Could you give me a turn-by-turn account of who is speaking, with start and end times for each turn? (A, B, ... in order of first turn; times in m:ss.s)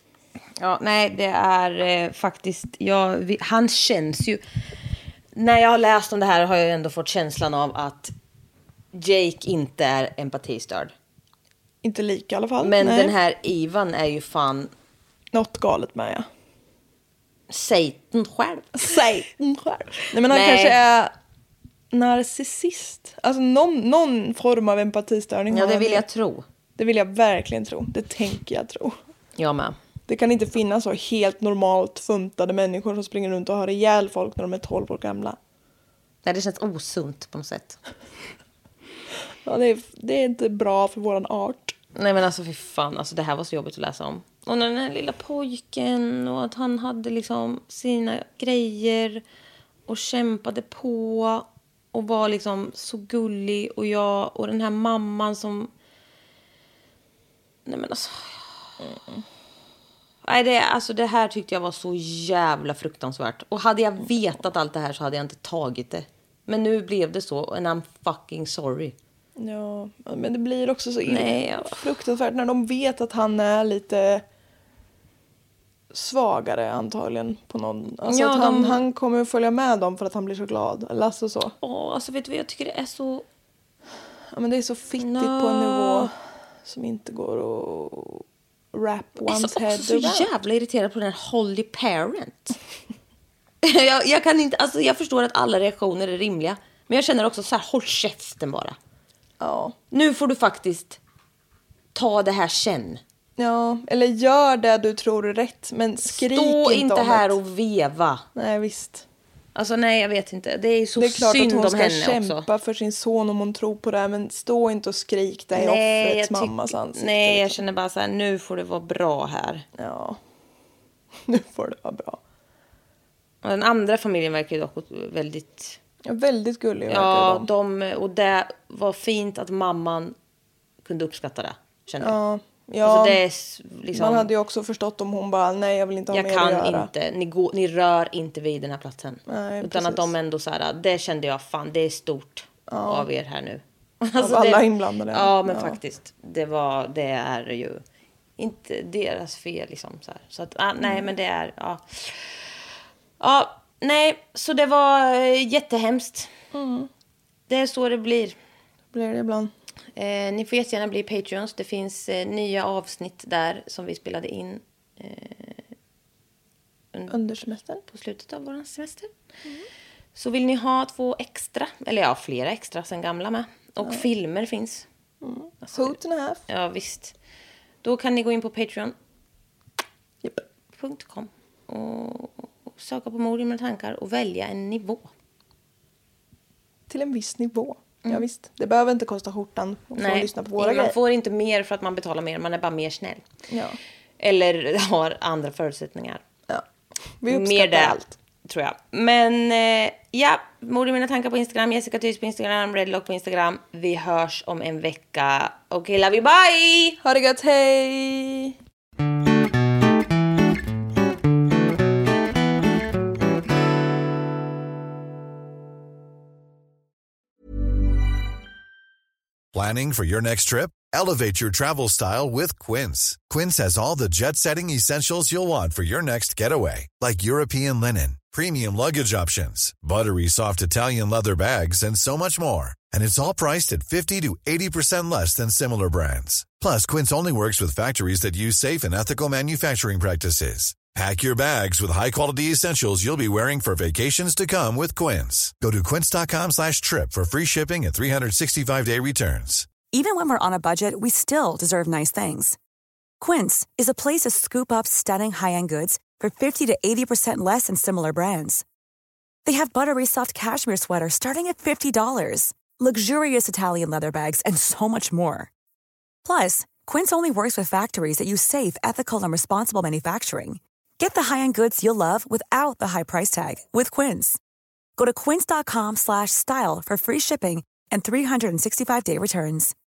0:00.6-0:04.4 A
0:05.3-0:08.1 A
0:08.9-0:10.9 A
0:11.8-0:13.1 B
0:12.6-0:14.7 A
0:15.3-0:16.3 B
0:17.5-0:18.8 A
0:18.7-0:21.1 B
0:20.3-0:20.8 A
0:21.9-0:26.0 B
0:25.5-0:26.4 A
0:26.8-0:29.0 B
0:29.4-0:29.8 A
0:30.1-0:35.4 B
0:36.2-0:37.8 A
0:39.4-0:41.7 B
0:41.9-0:49.2 A
0:49.9-0:55.7 A
0:57.6-0:58.4 A
1:00.2-1:08.9 A
1:09.4-1:14.2 B
1:11.0-1:11.8 A
1:15.9-1:21.5 B
1:18.0-1:18.8 A
1:21.6-1:23.2 A
1:24.3-1:26.1 B
1:25.0-1:26.1 A
1:26.6-1:30.3 B
1:29.2-1:32.6 A
1:33.6-1:38.8 A
1:39.4-1:39.7 B
1:39.9-1:41.0 A
1:41.9-1:43.0 A
1:43.4-1:47.4 B
1:46.0-1:48.2 A
1:48.3-1:49.0 B
1:49.5-1:52.5 A
1:51.0-1:57.6 B
1:55.5-1:59.6 A
1:59.8-2:00.2 B
2:01.2-2:02.2 B
2:03.4-2:05.8 A
2:06.0-2:07.5 B
2:06.9-2:10.1 A
2:10.8-2:12.2 A
2:12.0-2:13.2 B
2:12.8-2:14.3 A
2:13.9-2:16.9 B
2:16.1-2:27.8 A
2:19.3-2:20.1 B
2:22.7-2:23.1 B
2:24.2-2:25.7 B
2:28.4-2:32.4 A
2:33.2-2:36.3 A
2:36.5-2:36.9 B
2:37.5-2:38.4 A
2:38.9-2:39.5 B
2:40.0-2:45.6 A
2:46.9-2:47.2 A
2:47.1-2:47.8 B
2:47.8-2:49.1 A
2:50.1-2:54.8 A
2:55.2-2:56.4 B
2:55.6-2:57.1 A
2:57.8-2:58.9 A
3:00.7-3:05.1 A
3:06.9-3:11.0 B
3:10.0-3:13.2 A
3:13.5-3:13.8 B
3:14.2-3:16.2 A
3:17.2-3:18.1 B
3:17.3-3:27.0 A
3:27.0-3:28.5 B
3:39.5-4:09.7 C
4:09.9-4:12.6 D
4:13.2-4:18.6 D
4:19.4-4:25.5 D
4:26.2-4:34.4 D
4:35.0-4:39.7 D